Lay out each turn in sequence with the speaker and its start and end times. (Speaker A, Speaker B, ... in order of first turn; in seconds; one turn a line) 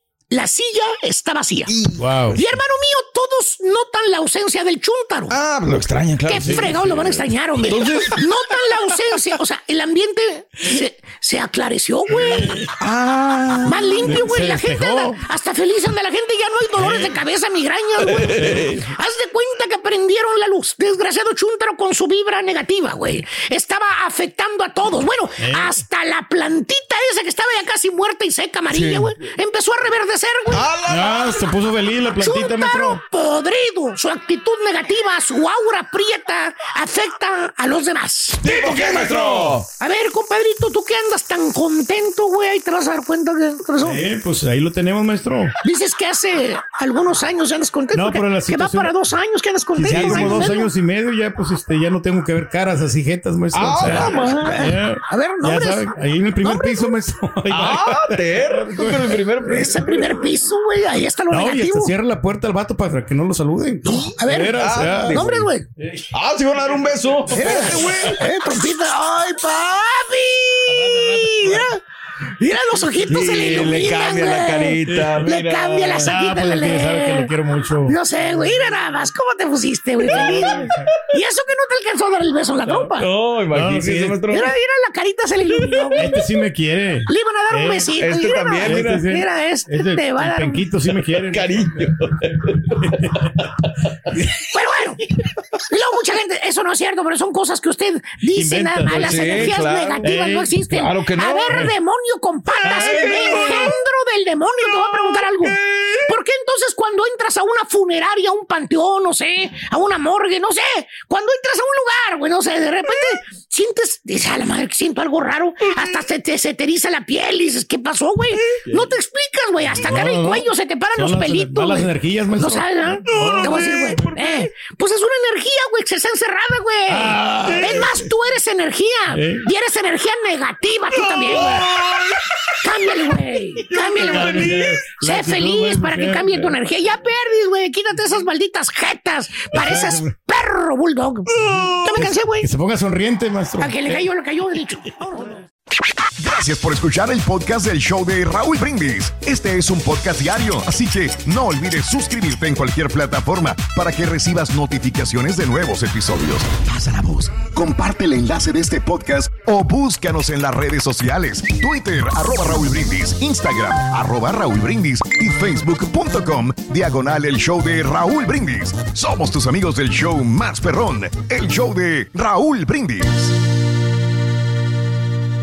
Speaker A: 0.3-5.4
Speaker B: 2.0-2.4
Speaker C: 5.3-8.2
Speaker A: 6.3-12.7
Speaker B: 6.4-6.7
Speaker C: 12.8-14.1
Speaker A: 13.6-30.7
Speaker B: 14.0-15.2
Speaker C: 18.2-18.8
Speaker B: 18.3-18.9
Speaker B: 25.4-25.8
Speaker C: 28.7-29.3
Speaker C: 30.5-31.4
Speaker B: 30.9-33.0
Speaker A: 32.2-44.0
Speaker C: 38.4-39.7
Speaker B: 39.2-39.5
Speaker B: 43.8-45.5
Speaker A: 45.6-50.7
Speaker B: 47.9-48.9
Speaker B: 49.8-59.2
Speaker C: 49.8-50.5
Speaker C: 53.5-54.7
Speaker A: 53.8-56.9
Speaker C: 57.5-60.3
Speaker A: 59.4-61.9
Speaker B: 61.3-65.3
Speaker A: 63.9-65.7
Speaker C: 64.5-65.5
Speaker C: 66.1-68.2
Speaker B: 67.3-68.1
Speaker A: 67.3-71.8
Speaker B: 70.7-71.6
Speaker A: 72.4-77.3
Speaker C: 73.1-76.1
Speaker B: 74.9-75.3
Speaker B: 76.0-78.0
Speaker A: 77.8-83.1
Speaker B: 80.1-80.9
Speaker C: 80.1-80.5
Speaker C: 82.8-84.5
Speaker B: 83.5-84.2
Speaker A: 84.3-86.3
Speaker C: 85.5-86.0
Speaker B: 86.0-87.9
Speaker A: 87.1-90.6
Speaker C: 87.9-89.1
Speaker B: 88.6-91.9
Speaker C: 91.3-93.1
Speaker A: 94.4-95.0
Speaker A: 95.7-131.7
Speaker B: 98.3-100.7
Speaker C: 98.8-101.7
Speaker B: 102.6-103.6
Speaker C: 102.7-103.8
Speaker C: 104.7-106.1
Speaker C: 118.5-118.9
Speaker B: 119.8-124.1
Speaker C: 123.1-124.3
Speaker B: 126.9-127.9
Speaker C: 127.5-127.8
Speaker B: 129.1-129.5
Speaker C: 131.0-132.1
Speaker A: 132.6-142.5
Speaker C: 133.7-134.9
Speaker B: 134.0-136.6
Speaker B: 139.5-140.1
Speaker B: 141.5-144.1
Speaker A: 143.6-144.9
Speaker D: 146.2-173.4